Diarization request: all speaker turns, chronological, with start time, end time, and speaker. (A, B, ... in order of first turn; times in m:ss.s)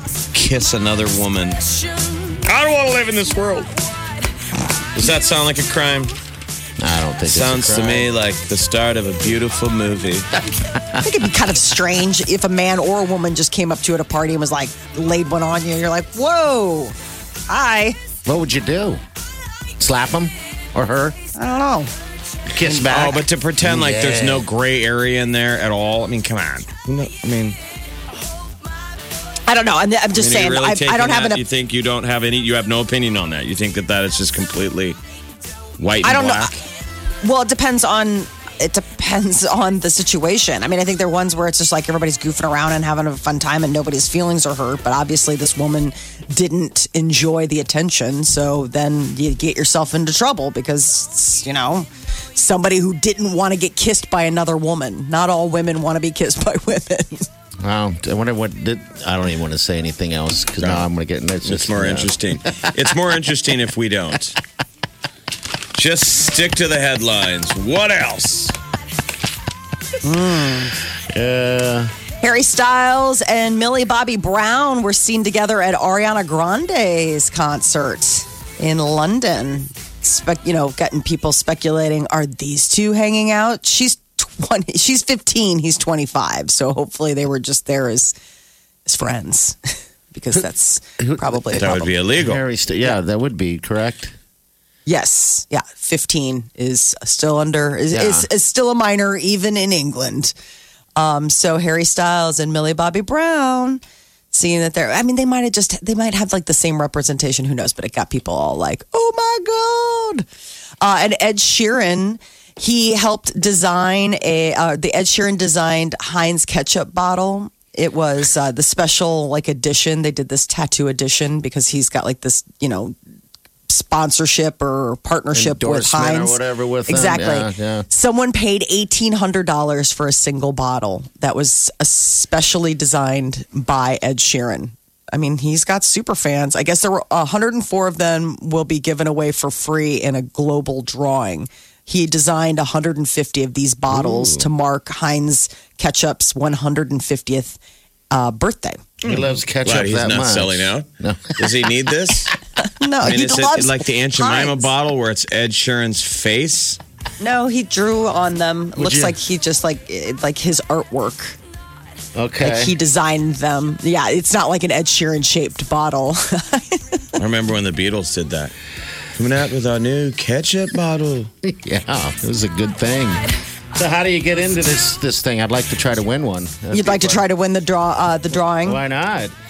0:00.3-0:01.6 A
0:02.4-0:03.7 A
0:04.9-0:06.2 A
0:06.8-0:08.1 B
0:07.3-0:10.3 A
0:10.5-0:11.0 B
0:11.0-0:17.0 C
0:17.5-0:18.0 C
0:18.3-0:19.0 B
0:19.8-0:21.2 B
0:21.4-0:21.9 C
0:22.5-0:24.5 B
0:22.8-0:27.6 A
0:29.5-0:31.4 C
0:30.2-0:35.0 A
0:35.8-0:36.6 A
0:36.0-0:36.5 C
0:37.2-0:57.3 C
0:57.6-1:02.9 B
1:00.6-1:00.9 A
1:01.4-1:04.4 A
1:05.7-1:08.5 A
1:10.0-1:10.8 C
1:10.9-1:11.9 B
1:12.2-1:28.1 C
1:28.9-1:31.9 C
1:31.0-1:34.2 B
1:31.5-1:32.4 A
1:34.9-1:40.3 C
1:37.9-1:38.3 B
1:41.0-1:50.3 C
1:50.8-2:03.0 C
2:03.7-2:27.6 C
2:05.3-2:07.9 B
2:23.9-2:24.5 B
2:28.1-2:28.8 C
2:29.0-2:32.4 A
2:29.0-2:31.7 B
2:32.6-2:34.7 C
2:33.0-2:36.8 A
2:37.2-2:41.4 C
2:38.8-2:39.2 B
2:42.2-2:42.7 B
2:42.4-2:47.1 C
2:47.2-2:48.5 A
2:49.2-2:51.3 A
2:51.4-2:57.3 B
2:56.7-2:58.8 C
2:58.6-2:59.3 B